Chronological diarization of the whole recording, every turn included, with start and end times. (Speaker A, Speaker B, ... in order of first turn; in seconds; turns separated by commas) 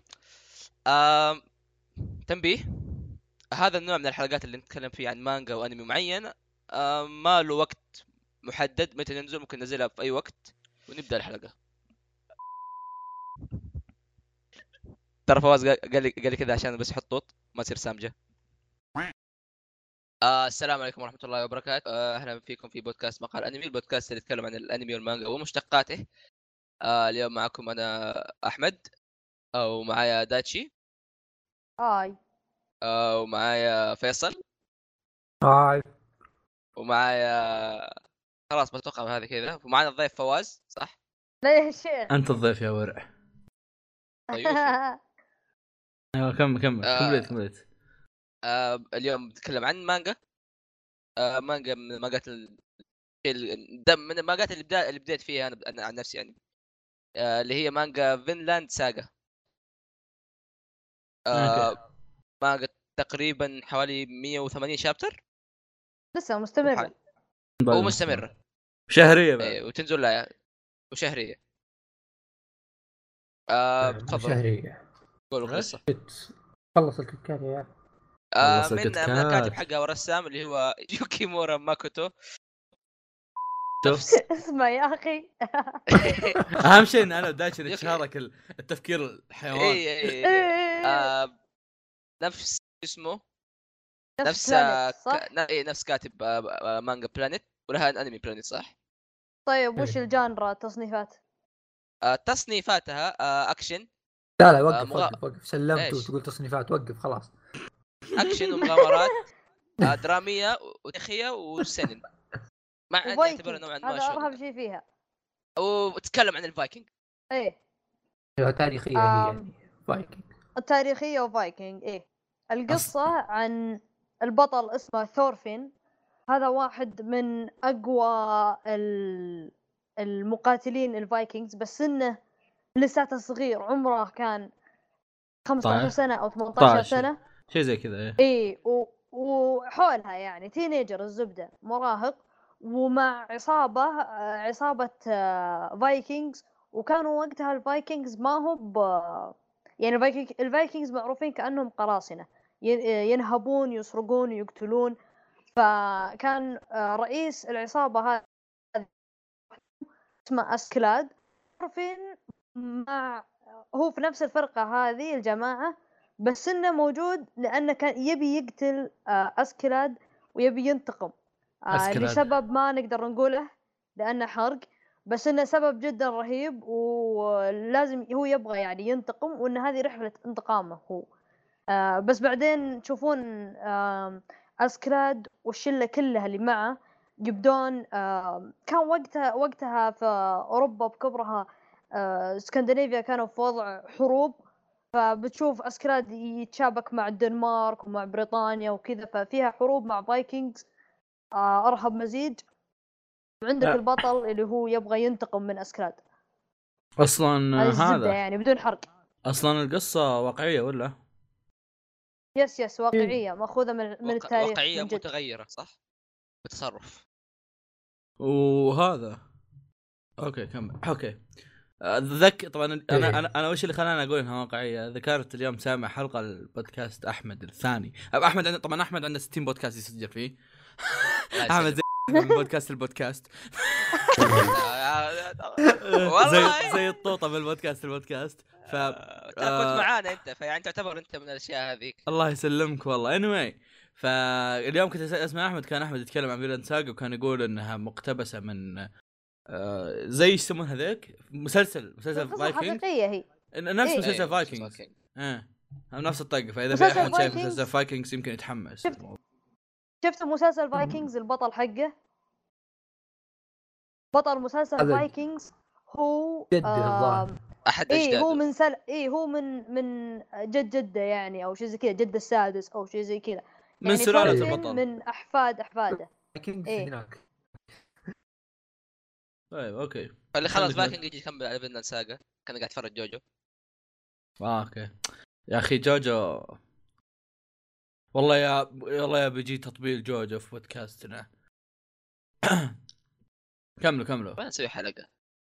Speaker A: 0.9-1.4, Speaker A: 2.2-7.9, Speaker A: 8.4-11.5, Speaker A: 15.3-18.1, Speaker A: 20.2-26.0, Speaker A: 26.8-28.8, Speaker A: 29.6-30.7, Speaker B: 31.8-32.1, Speaker A: 32.8-34.4, Speaker C: 35.4-35.8, Speaker A: 36.8-37.9, Speaker A: 38.5-40.9, Speaker B: 41.4-42.1, Speaker D: 42.1-43.0, Speaker B: 44.3-45.0, Speaker A: 44.3-44.7, Speaker D: 46.1-47.6, Speaker A: 46.8-47.3, Speaker A: 48.5-50.1, Speaker A: 51.2-52.6, Speaker A: 53.2-56.3, Speaker A: 57.2-59.1, Speaker A: 61.3-61.7, Speaker D: 61.3-61.7, Speaker A: 62.4-65.2, Speaker B: 66.1-66.9, Speaker A: 66.6-66.9, Speaker D: 67.6-68.2, Speaker A: 67.7-68.3, Speaker D: 68.9-69.5, Speaker A: 69.4-70.3, Speaker A: 70.9-71.4, Speaker A: 73.5-74.4, Speaker C: 73.8-74.8, Speaker A: 75.3-75.8, Speaker D: 75.4-75.7, Speaker C: 75.9-77.7, Speaker A: 78.3-82.1, Speaker D: 78.4-79.6, Speaker A: 83.8-84.2, Speaker D: 83.8-84.1, Speaker B: 84.1-86.3, Speaker A: 85.9-86.6, Speaker D: 86.6-89.8, Speaker A: 87.7-88.0, Speaker A: 89.5-91.3, Speaker B: 90.2-91.1, Speaker A: 92.2-93.2, Speaker B: 94.2-95.2, Speaker A: 94.2-98.7, Speaker B: 99.5-101.2, Speaker A: 102.0-103.9, Speaker C: 104.4-107.3, Speaker A: 104.7-105.2, Speaker A: 105.7-106.1, Speaker A: 108.1-109.2, Speaker A: 109.8-112.0, Speaker A: 112.9-114.4, Speaker B: 113.0-114.8, Speaker A: 115.6-116.9, Speaker B: 117.3-117.6, Speaker C: 118.4-120.2, Speaker B: 119.0-119.4, Speaker B: 120.6-125.7, Speaker B: 126.3-132.2, Speaker B: 132.8-134.5, Speaker B: 135.4-137.2, Speaker D: 135.6-135.9, Speaker D: 136.6-138.2, Speaker B: 138.2-154.9, Speaker B: 155.6-158.2, Speaker B: 160.2-165.7, Speaker B: 166.2-171.1, Speaker B: 171.7-181.0, Speaker D: 171.7-172.2, Speaker B: 181.7-194.3, Speaker B: 194.9-200.6, Speaker B: 201.3-202.4, Speaker B: 203.4-206.0, Speaker D: 207.0-208.2, Speaker B: 207.6-208.8, Speaker D: 209.2-210.9, Speaker B: 212.3-215.0, Speaker A: 214.0-215.7, Speaker A: 216.4-217.0, Speaker D: 218.2-219.2, Speaker D: 220.2-221.2, Speaker D: 221.8-234.5, Speaker C: 222.9-223.2, Speaker A: 231.3-231.8, Speaker C: 234.2-234.5, Speaker A: 234.4-236.8, Speaker D: 235.8-239.9, Speaker A: 238.8-242.0, Speaker D: 242.1-248.9, Speaker D: 249.5-252.8, Speaker B: 252.1-253.2, Speaker D: 253.5-259.2, Speaker A: 254.0-254.9, Speaker B: 256.7-257.7, Speaker A: 256.9-257.4, Speaker B: 260.0-261.9, Speaker C: 260.8-261.0, Speaker B: 264.1-267.3, Speaker C: 264.8-265.1, Speaker C: 266.5-267.4, Speaker A: 267.6-268.4, Speaker B: 267.9-276.1, Speaker D: 273.8-274.8, Speaker C: 274.2-274.6, Speaker C: 276.3-277.2, Speaker D: 279.5-280.9, Speaker A: 280.3-283.2, Speaker D: 284.4-284.9, Speaker D: 285.5-286.6, Speaker D: 288.1-291.3, Speaker D: 292.4-292.7, Speaker D: 293.8-294.4, Speaker A: 294.4-295.1